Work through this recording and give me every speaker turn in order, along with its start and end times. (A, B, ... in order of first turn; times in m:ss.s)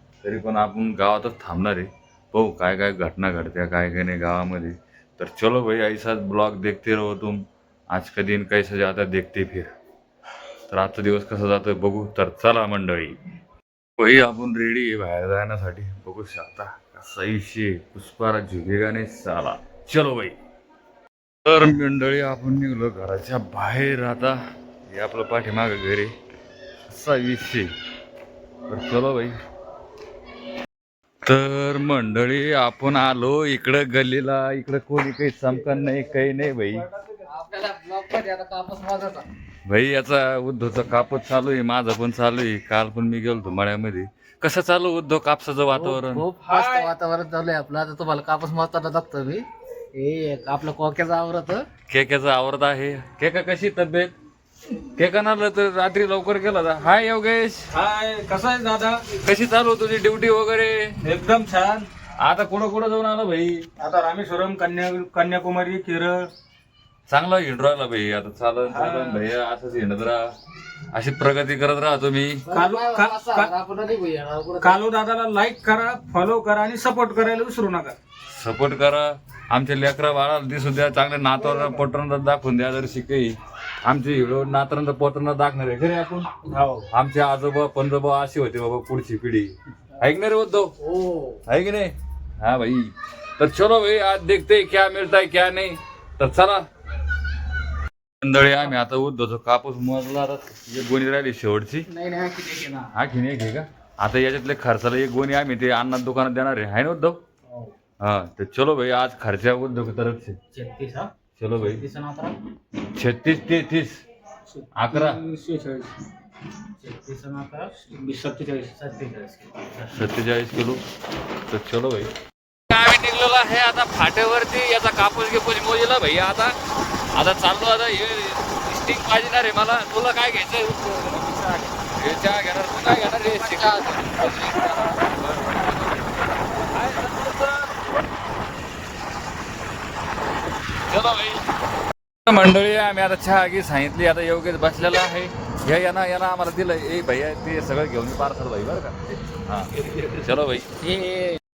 0:00.2-0:09.7 A
0:10.7-0:13.2 A
0:14.0-0:20.4 A
0:21.4-0:26.1 A
0:26.9-0:27.7 A
0:28.7-0:29.3 A
0:31.2-0:36.8 A
0:37.3-0:39.2 B
0:39.6-0:46.2 A
0:45.7-0:51.6 B
0:51.9-0:54.1 A
0:54.9-0:57.7 A
0:57.7-0:59.0 C
0:59.2-1:00.9 A
1:01.0-1:01.9 C
1:02.2-1:03.6 A
1:03.8-1:06.3 C
1:07.1-1:10.3 A
1:08.7-1:09.2 C
1:10.9-1:12.4 A
1:12.5-1:14.8 B
1:12.5-1:13.5 C
1:14.6-1:17.9 C
1:18.3-1:26.3 A
1:26.5-1:26.8 C
1:26.9-1:30.7 A
1:31.4-1:36.6 A
1:38.2-1:41.9 A
1:41.9-1:42.9 B
1:42.9-1:47.2 A
1:48.0-1:50.4 A
1:50.5-1:52.4 B
1:51.4-1:51.8 A
1:52.8-1:54.0 A
1:54.5-1:55.9 B
1:54.7-1:55.2 A
1:56.8-1:59.6 B
1:59.8-2:00.8 A
2:01.5-2:02.1 A
2:02.7-2:06.5 A
2:07.1-2:16.1 A
2:16.6-2:17.7 A
2:20.9-2:21.4 A
2:22.2-2:30.7 A
2:30.8-2:31.4 B